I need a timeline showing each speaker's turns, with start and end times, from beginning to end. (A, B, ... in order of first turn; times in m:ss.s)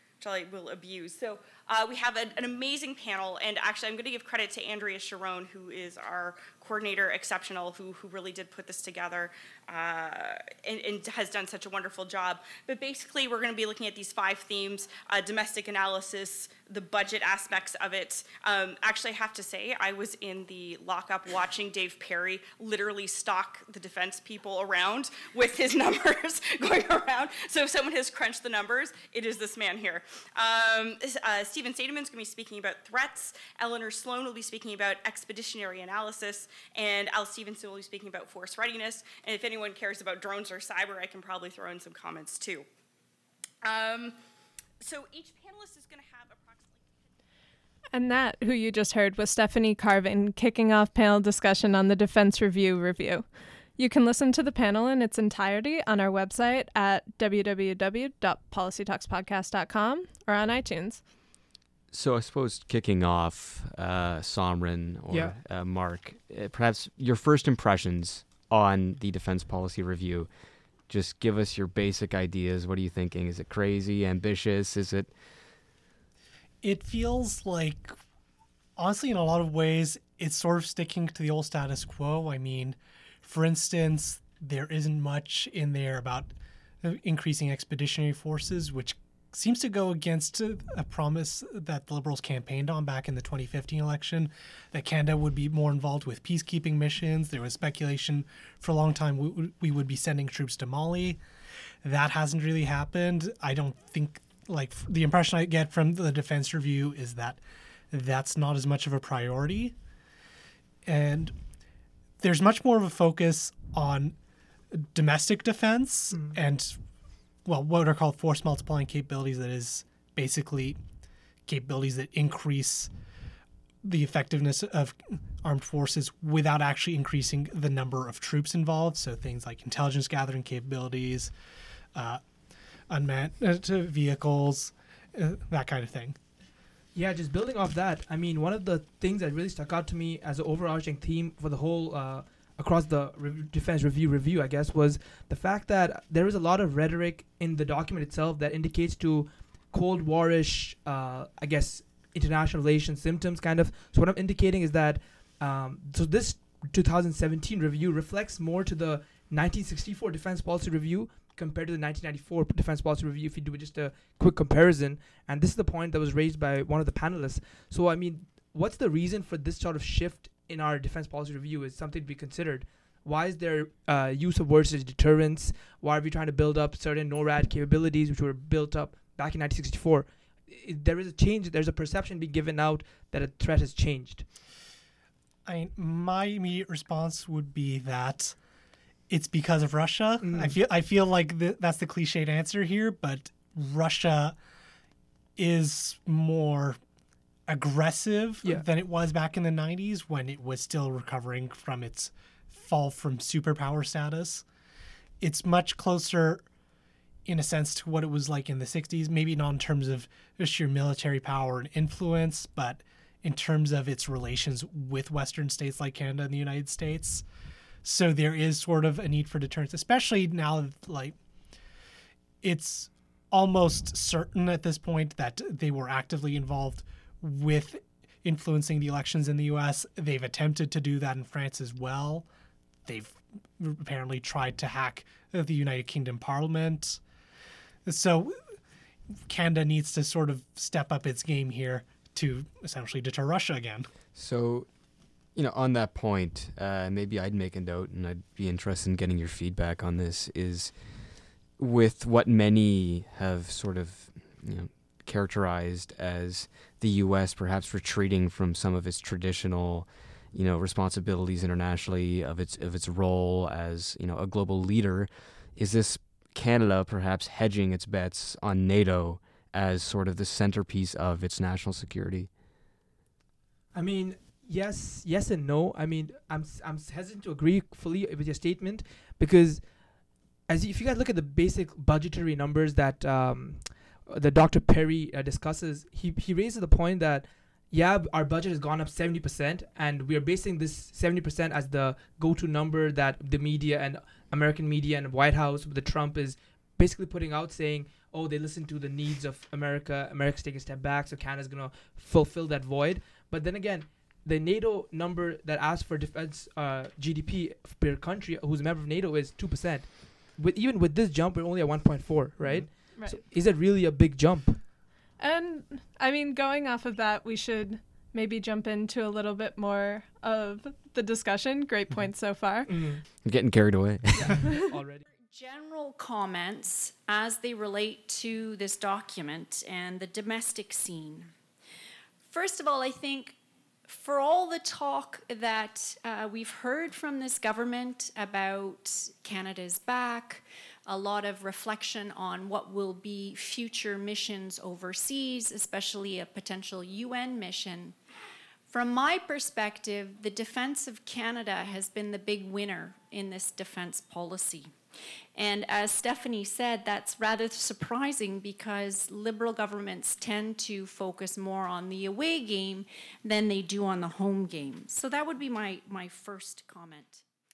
0:00.2-0:42.7 A
0:43.6-0:44.2 A
0:44.8-0:46.9 A
0:47.9-0:53.2 B
0:53.8-1:01.0 B
1:01.9-1:10.3 C
1:05.1-1:05.4 D
1:10.9-1:15.1 C
1:16.6-1:18.0 E
1:18.8-1:41.2 E
1:41.8-1:49.8 E
1:50.8-1:51.3 E
1:52.2-1:54.2 E
1:54.7-1:56.8 E
1:57.4-2:00.8 E
2:01.5-2:02.9 E
2:03.8-2:11.3 E
2:11.9-2:12.2 E
2:12.9-2:16.2 E
2:16.9-3:04.3 D
3:05.4-3:08.4 E
3:09.1-3:14.4 E
3:10.2-3:10.6 D
3:15.4-3:16.8 E
3:17.5-3:24.4 E
3:25.2-3:26.4 E
3:27.2-3:37.2 E
3:37.8-3:41.2 E
3:42.4-3:52.3 E
3:52.8-3:57.0 E
3:57.8-3:58.6 E
3:59.2-4:03.9 E
4:04.2-4:04.7 C
4:05.3-4:32.3 C
4:33.7-4:39.8 D
4:40.5-5:14.6 D
5:15.2-5:22.8 B
5:22.7-5:23.0 D
5:23.2-5:24.4 C
5:24.1-5:25.0 D
5:25.3-5:31.3 F
5:32.2-5:48.0 F
5:48.7-5:54.7 F
5:55.3-6:07.2 F